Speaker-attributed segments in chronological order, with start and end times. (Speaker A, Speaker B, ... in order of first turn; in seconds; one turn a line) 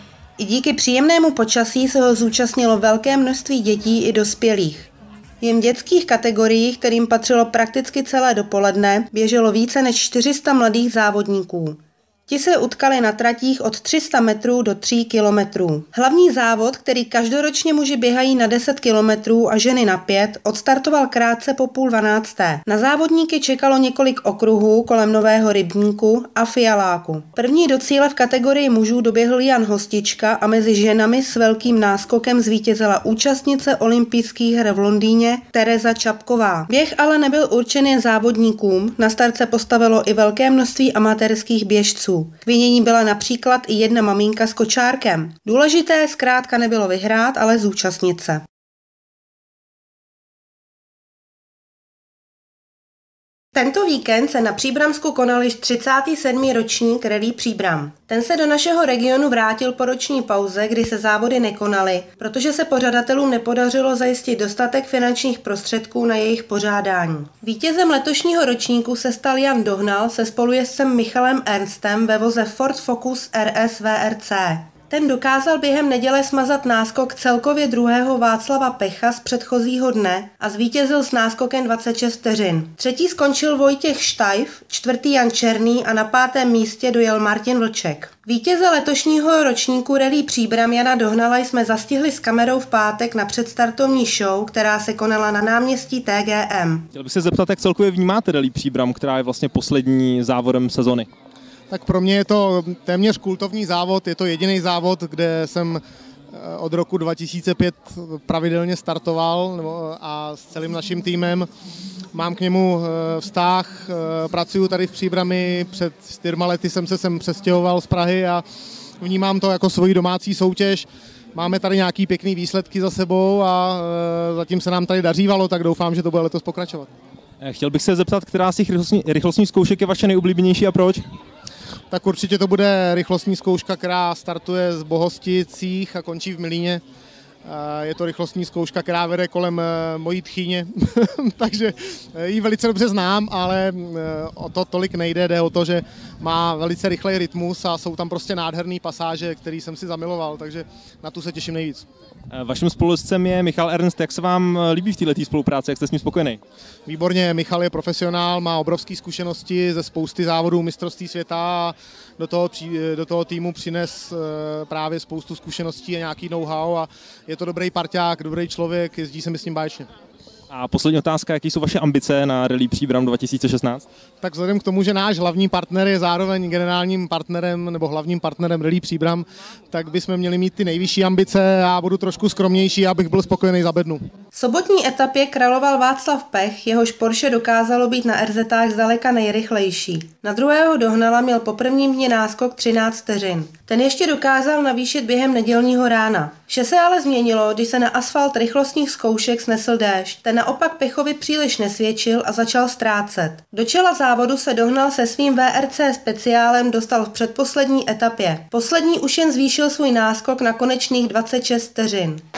Speaker A: 0.4-4.9
Speaker A: 5.4-48.5
Speaker A: 53.5-96.9
Speaker B: 96.9-101.1
Speaker C: 101.7-105.8
Speaker C: 106.3-111.5
Speaker C: 112.1-118.4
Speaker C: 119.0-126.9
Speaker B: 127.4-131.0
Speaker C: 131.9-136.8
Speaker C: 137.4-151.9
Speaker B: 152.3-156.4
Speaker C: 156.9-169.9
Speaker B: 170.5-173.9
Speaker C: 174.2-184.0
Speaker A: 184.3-212.2